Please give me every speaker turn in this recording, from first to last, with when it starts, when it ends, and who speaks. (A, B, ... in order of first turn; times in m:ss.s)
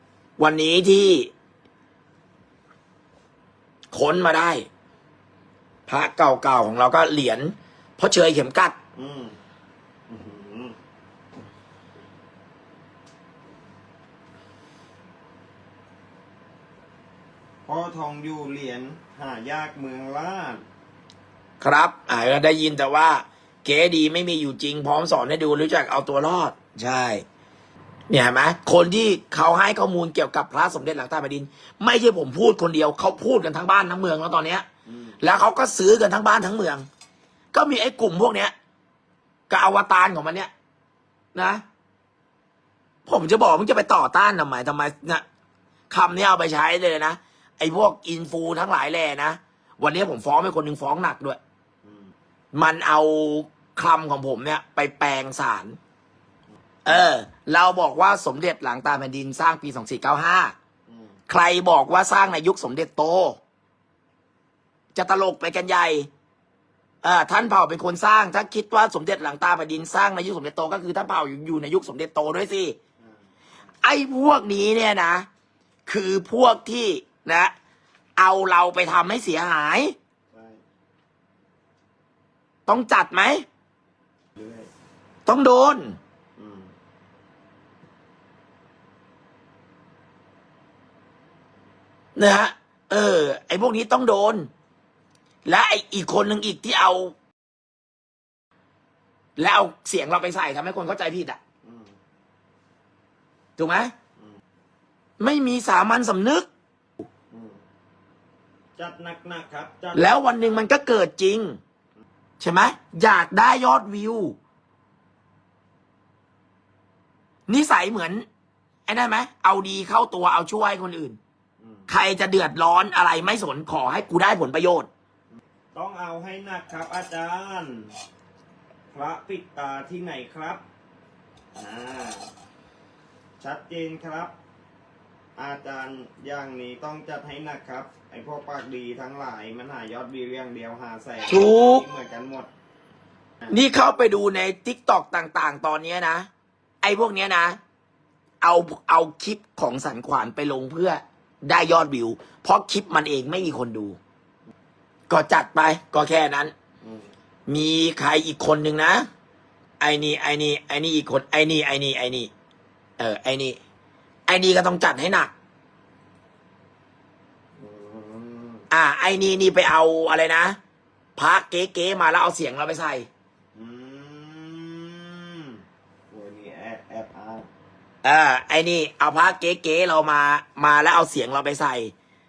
0:00.4-0:01.3 A
0:03.9-0:04.7 A
0:05.9-0:08.8 A
0:09.0-0:09.4 B
0:10.1-0:10.8 B
0:17.7-0:20.6 B
0:21.6-0:27.2 A
0:28.1-0:34.7 A
0:34.9-0:35.2 B
0:35.2-0:36.9 A
0:37.5-0:38.5 A
0:39.5-0:40.5 A
0:41.4-0:41.6 A
0:43.1-0:45.2 A
0:45.9-0:51.4 A
0:51.8-0:52.1 B
0:52.5-0:55.8 A
0:56.8-1:00.5 A
1:00.9-1:01.2 B
1:01.3-1:03.4 A
1:05.0-1:06.1 A
1:07.0-1:12.8 A
1:13.0-1:13.2 B
1:13.8-1:15.3 A
1:15.9-1:17.5 A
1:18.2-1:20.0 A
1:20.3-1:20.6 B
1:22.7-1:23.4 A
1:24.4-1:24.7 B
1:25.3-1:26.0 A
1:26.4-1:26.7 B
1:32.2-1:34.5 A
1:35.5-1:37.1 A
1:39.4-1:41.4 A
1:41.6-1:42.0 B
1:43.6-1:43.9 A
1:45.2-1:46.5 A
1:47.3-1:47.6 B
1:48.8-1:50.2 B
1:49.9-1:51.6 A
1:52.4-1:54.4 A
1:57.5-1:58.2 A
1:58.9-2:01.2 A
2:01.6-2:01.9 B
2:01.9-2:04.9 A
2:05.7-2:08.0 B
2:08.9-2:10.6 B
2:11.6-2:12.3 B
2:13.4-2:14.3 B
2:15.4-2:22.5 B
2:21.3-2:21.8 A
2:23.5-2:26.3 A
2:26.8-2:27.6 A
2:28.4-2:34.0 A
2:35.1-2:36.5 A
2:36.8-2:37.1 B
2:37.5-2:39.1 A
2:39.8-2:42.3 A
2:43.0-2:43.6 A
2:44.3-2:45.3 A
2:47.6-2:48.7 B
2:48.7-2:50.6 A
2:51.2-2:53.1 A
2:53.6-2:57.5 B
2:58.0-3:01.9 A